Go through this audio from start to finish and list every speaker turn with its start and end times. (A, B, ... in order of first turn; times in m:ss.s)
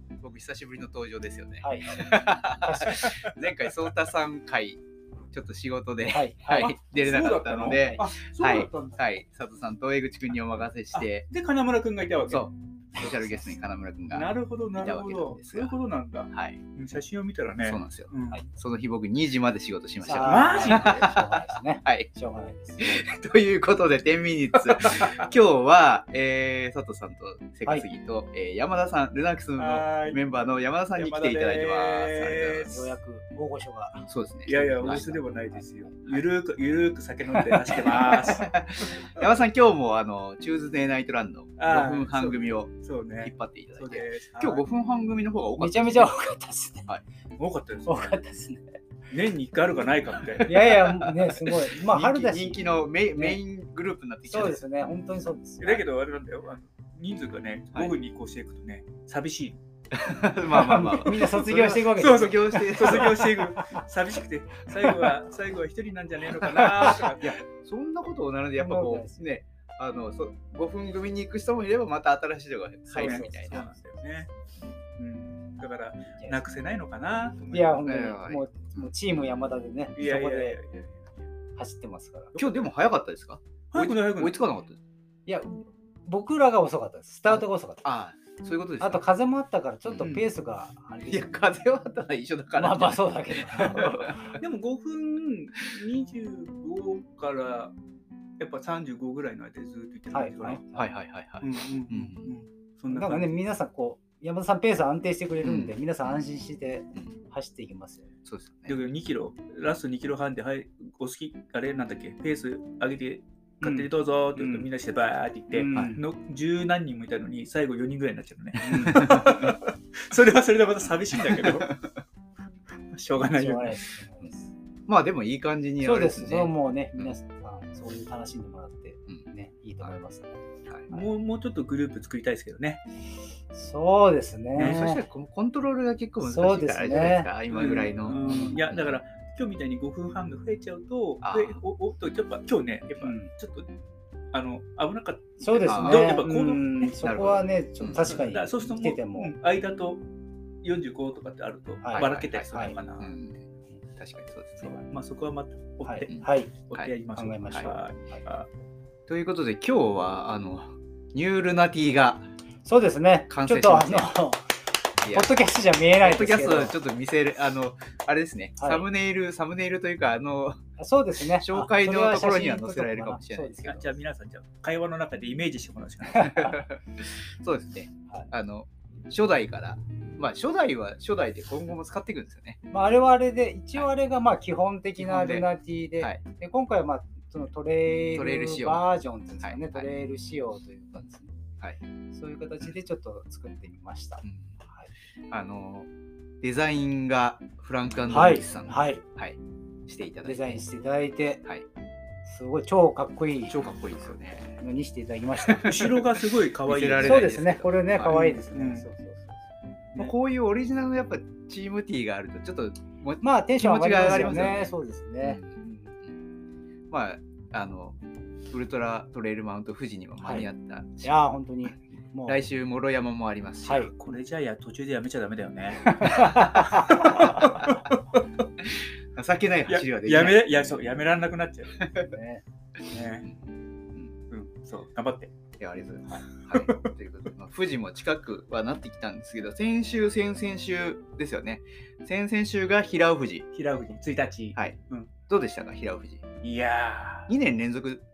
0:00.2-0:04.8 A
0:01.6-0:03.1 B
0:03.0-0:03.3 C
0:05.3-0:11.3 A
0:06.1-0:06.8 B
0:06.9-0:09.0 C
0:10.9-0:12.5 C
0:12.3-0:15.8 A
0:14.1-0:18.4 C
0:16.3-0:16.6 A
0:17.6-0:22.1 A
0:20.0-0:23.1 B
0:20.2-0:21.0 C
0:22.8-0:33.0 A
0:24.9-0:25.2 C
0:29.6-0:30.2 C
0:31.0-0:32.7 C
0:32.7-0:36.2 B
0:34.1-0:35.2 A
0:34.5-0:39.1 C
0:37.3-0:38.4 B
0:37.8-0:47.0 A
0:41.6-0:44.7 C
0:45.6-0:46.9 B
0:47.4-0:48.2 C
0:47.9-0:48.8 B
0:49.1-0:50.6 C
0:50.4-0:54.6 A
0:50.4-0:53.4 B
0:54.3-0:55.8 B
0:55.6-0:59.6 C
0:59.9-1:03.3 A
1:00.5-1:03.8 B
1:02.0-1:07.4 C
1:06.5-1:13.6 A
1:08.6-1:09.3 B
1:12.9-1:13.8 B
1:13.0-1:14.3 C
1:15.0-1:17.8 C
1:16.2-1:16.4 B
1:17.5-1:20.6 B
1:17.8-1:18.9 A
1:20.0-1:21.1 C
1:21.6-1:22.4 B
1:22.4-1:22.6 C
1:22.4-1:24.8 A
1:23.7-1:24.4 C
1:25.3-1:27.8 B
1:27.3-1:29.1 A
1:28.8-1:31.5 B
1:29.8-1:30.2 A
1:30.0-1:30.3 C
1:31.1-1:34.4 A
1:32.5-1:34.4 B
1:34.4-1:37.7 C
1:38.4-1:40.6 C
1:40.1-1:40.9 B
1:40.7-1:42.4 A
1:41.4-1:43.4 C
1:42.9-1:48.1 B
1:45.4-1:46.3 A
1:48.3-1:48.8 A
1:48.7-2:01.8 C
1:53.6-1:54.7 B
1:55.5-1:56.0 B
1:55.7-1:56.0 A
1:58.6-1:58.9 B
1:58.6-1:59.6 A
2:01.2-2:01.7 A
2:02.9-2:03.8 C
2:03.2-2:04.5 B
2:04.9-2:07.2 A
2:05.8-2:10.4 B
2:10.7-2:10.9 A
2:10.9-2:12.8 C
2:13.5-2:15.0 B
2:14.6-2:14.8 C
2:14.6-2:19.0 A
2:16.2-2:17.3 B
2:17.5-2:23.7 C
2:18.1-2:18.6 B
2:21.2-2:21.6 A
2:23.0-2:23.3 B
2:24.3-2:27.2 C
2:25.4-2:29.3 B
2:25.7-2:26.2 A
2:27.0-2:28.1 A
2:27.8-2:30.0 C
2:30.6-2:33.2 C
2:31.8-2:32.8 B
2:31.9-2:33.4 A
2:34.0-2:34.8 A
2:34.6-2:36.1 C
2:35.8-2:36.5 B
2:36.1-2:36.9 A
2:36.6-2:38.5 C
2:37.1-2:38.2 B
2:39.1-2:42.3 A
2:42.6-2:44.4 B
2:43.3-2:44.2 A
2:45.0-2:45.4 A
2:45.1-2:46.8 B
2:46.0-2:50.6 A
2:48.6-2:48.8 B
2:50.8-2:54.0 B
2:51.2-2:53.7 A
2:53.6-2:56.6 C
2:56.1-3:02.6 A
3:02.7-3:11.3 B
3:05.0-3:05.5 A
3:08.1-3:08.8 A
3:09.4-3:09.9 A
3:12.1-3:14.9 B
3:14.2-3:14.6 A
3:15.3-3:15.9 A
3:16.4-3:20.6 A
3:18.1-3:18.5 C
3:18.1-3:19.0 B
3:20.2-3:21.4 B
3:22.3-3:23.6 B
3:23.5-3:24.6 A
3:24.6-3:25.8 B
3:25.5-3:28.4 A
3:25.6-3:27.2 C
3:27.0-3:29.4 B
3:28.1-3:28.9 C
3:30.0-3:36.2 A
3:33.2-3:35.9 B
3:36.9-3:38.0 A
3:38.5-3:41.2 A
3:40.2-3:40.5 B
3:41.0-3:42.4 B
3:42.3-3:44.0 A
3:43.7-3:43.9 B
3:44.0-3:47.9 C
3:46.0-3:47.3 B
3:49.2-3:50.4 A
3:49.7-3:51.9 C
3:51.9-3:52.4 B
3:52.9-3:53.3 C
3:54.3-3:55.3 C
3:55.6-4:03.5 A
3:56.6-3:56.9 C
4:03.5-4:05.1 C
4:04.6-4:06.3 A
4:06.4-4:07.3 C
4:07.3-4:08.0 A